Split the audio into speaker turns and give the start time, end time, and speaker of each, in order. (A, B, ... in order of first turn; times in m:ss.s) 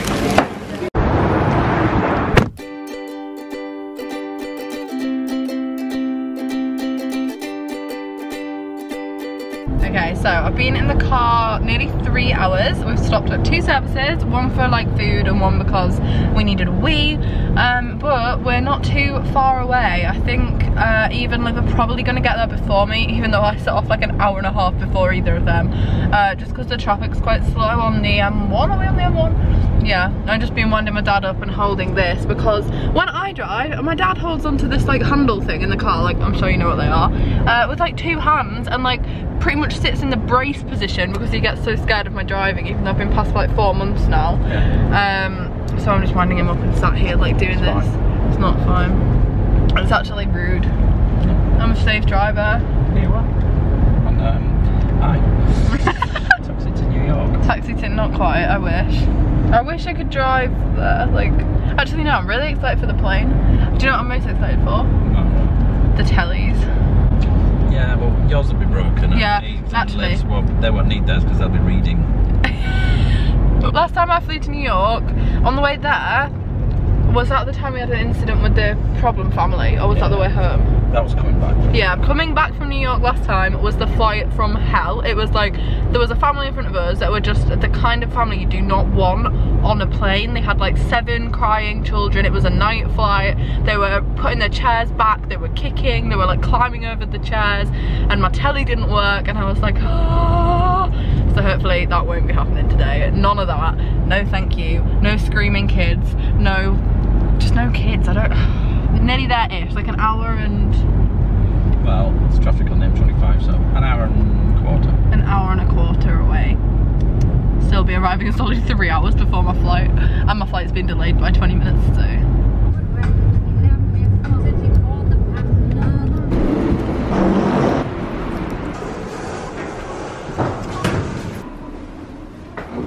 0:09.8-0:49.0 A
0:47.5-0:47.9 B
0:49.7-0:50.7 A
0:51.2-0:51.4 B
0:51.6-0:52.6 A
0:52.9-0:53.3 B
0:54.0-0:57.4 B
0:55.7-0:56.3 A
0:57.4-1:04.9 A
1:05.0-1:05.6 B
1:05.9-1:06.7 A
1:07.6-1:12.1 B
1:09.1-1:10.2 A
1:12.5-1:13.0 A
1:13.6-1:16.3 A
1:17.0-1:20.7 A
1:19.9-1:20.3 B
1:20.9-1:21.8 B
1:21.7-1:46.8 A
1:47.4-1:50.8 A
1:51.8-1:55.0 B
1:55.1-1:56.6 A
1:57.6-2:02.2 A